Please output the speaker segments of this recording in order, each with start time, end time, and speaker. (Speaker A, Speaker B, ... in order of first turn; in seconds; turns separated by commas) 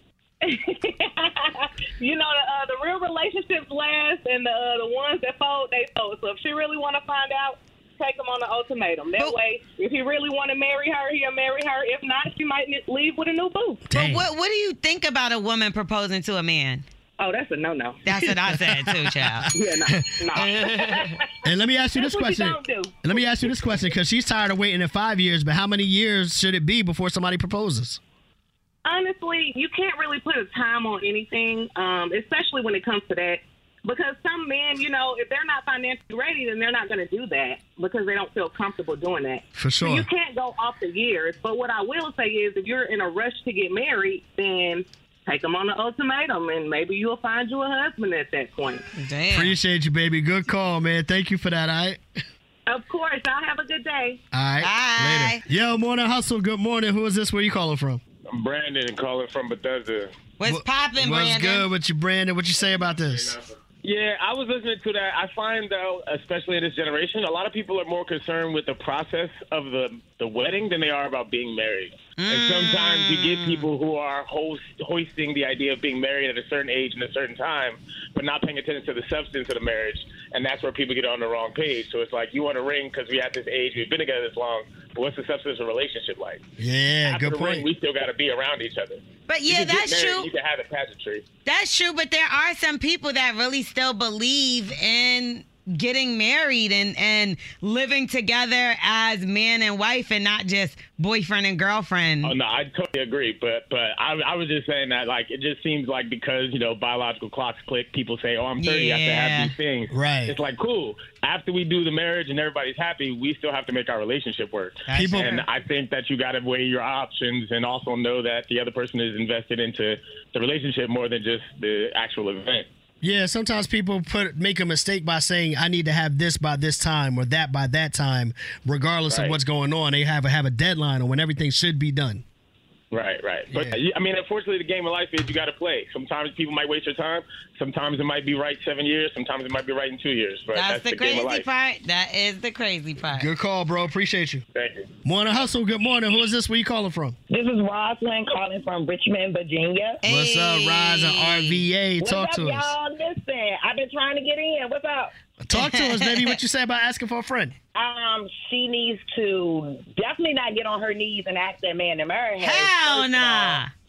Speaker A: 0.4-13.8, Speaker B: 13.9-14.3, Speaker C: 13.9-16.9, Speaker A: 17.2-18.0, Speaker C: 18.1-19.5, Speaker B: 18.4-20.5, Speaker A: 19.7-21.1, Speaker B: 21.4-28.0, Speaker A: 22.0-23.2, Speaker A: 28.9-48.9, Speaker B: 39.6-40.1, Speaker C: 49.0-49.5, Speaker B: 49.3-52.0, Speaker A: 52.7-54.2, Speaker B: 54.3-58.0, Speaker C: 54.6-55.4, Speaker D: 58.3-60.1, Speaker C: 60.4-61.7, Speaker B: 60.5-63.4, Speaker D: 63.1-86.4, Speaker C: 72.2-73.7, Speaker B: 86.6-87.7, Speaker D: 87.0-91.3, Speaker C: 89.3-90.3, Speaker C: 91.5-102.3, Speaker D: 102.2-122.7, Speaker C: 108.6-109.5, Speaker B: 109.9-110.4, Speaker C: 114.9-115.5, Speaker B: 114.9-115.3, Speaker B: 123.0-132.2, Speaker D: 129.1-129.3, Speaker D: 132.9-141.5, Speaker B: 133.5-133.8, Speaker C: 140.5-143.3, Speaker B: 143.1-144.4, Speaker D: 144.6-144.9, Speaker B: 145.0-147.2, Speaker C: 150.0-151.6, Speaker B: 150.1-152.7, Speaker B: 155.4-157.6, Speaker C: 155.5-156.4, Speaker E: 158.0-162.2, Speaker C: 162.4-163.7